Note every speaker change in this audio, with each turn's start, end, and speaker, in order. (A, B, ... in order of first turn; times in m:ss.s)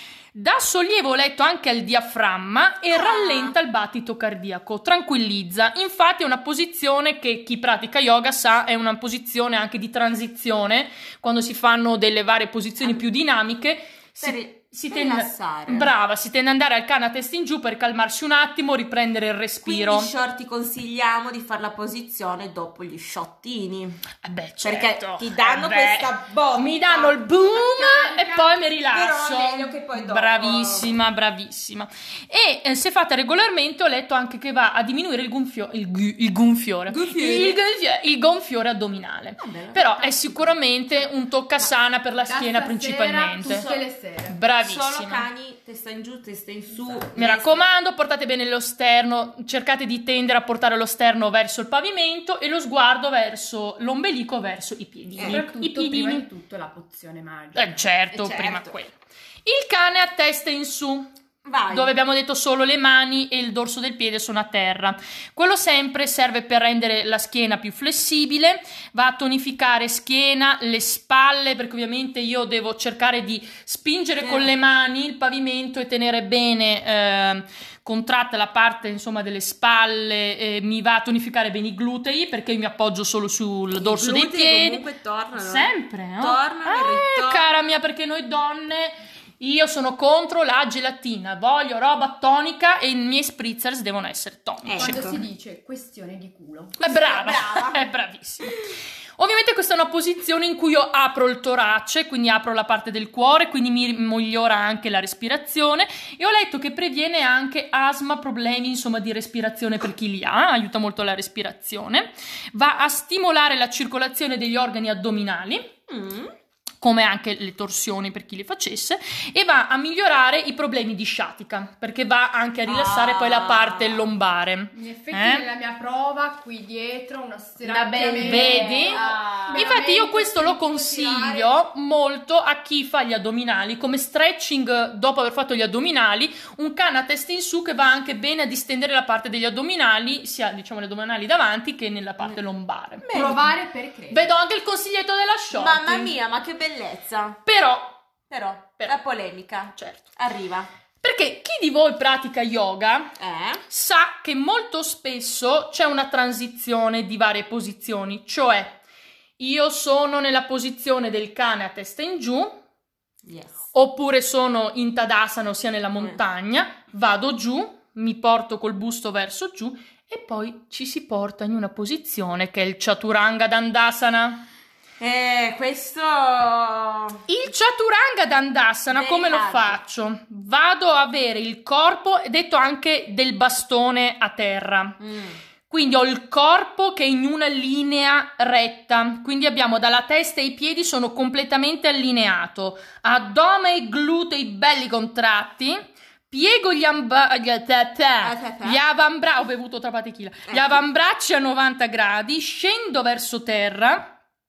0:00.3-0:20.1 A
0:02.9-0:03.6 B
0:14.2-0:15.9 B
0:19.6-0:24.0 B
0:24.2-0:43.7 A
0:24.6-0:27.2 B
0:27.4-0:28.6 C
0:28.9-0:30.9 B
0:36.9-0:37.6 B
0:39.4-0:40.6 B
0:42.2-0:44.4 C
0:43.4-0:43.8 B
0:44.3-0:45.2 A
0:44.6-0:47.6 B
0:47.1-0:56.2 A
0:55.2-0:55.4 B
0:55.2-0:57.7 C
0:57.6-0:58.9 A
0:58.1-0:58.7 B
0:59.4-1:01.1 A
1:01.4-1:01.9 B
1:01.7-1:24.8 A
1:14.2-1:14.5 B
1:23.8-1:27.4 B
1:25.3-1:35.1 A
1:34.6-1:35.2 B
1:34.8-1:36.9 C
1:36.8-1:55.7 A
1:36.8-1:37.9 B
1:55.9-1:56.3 B
1:56.8-2:05.4 A
2:02.7-2:04.0 B
2:04.7-2:11.5 C
2:07.6-2:09.8 B
2:08.2-2:23.4 A
2:23.0-2:23.4 B
2:23.1-2:24.3 C
2:24.1-2:26.1 A
2:25.5-2:27.4 B
2:27.4-2:28.0 A
2:28.3-2:30.7 B
2:29.7-2:30.0 A
2:31.0-2:33.1 A
2:33.2-2:33.6 B
2:33.7-2:38.8 A
2:39.4-2:42.6 A
2:43.2-2:43.6 B
2:43.7-2:54.4 A
2:55.0-2:57.2 B
2:57.3-3:05.0 A
2:58.9-2:59.8 B
3:05.0-3:05.4 B
3:05.7-3:24.1 A
3:18.2-3:18.8 B
3:20.5-3:20.8 B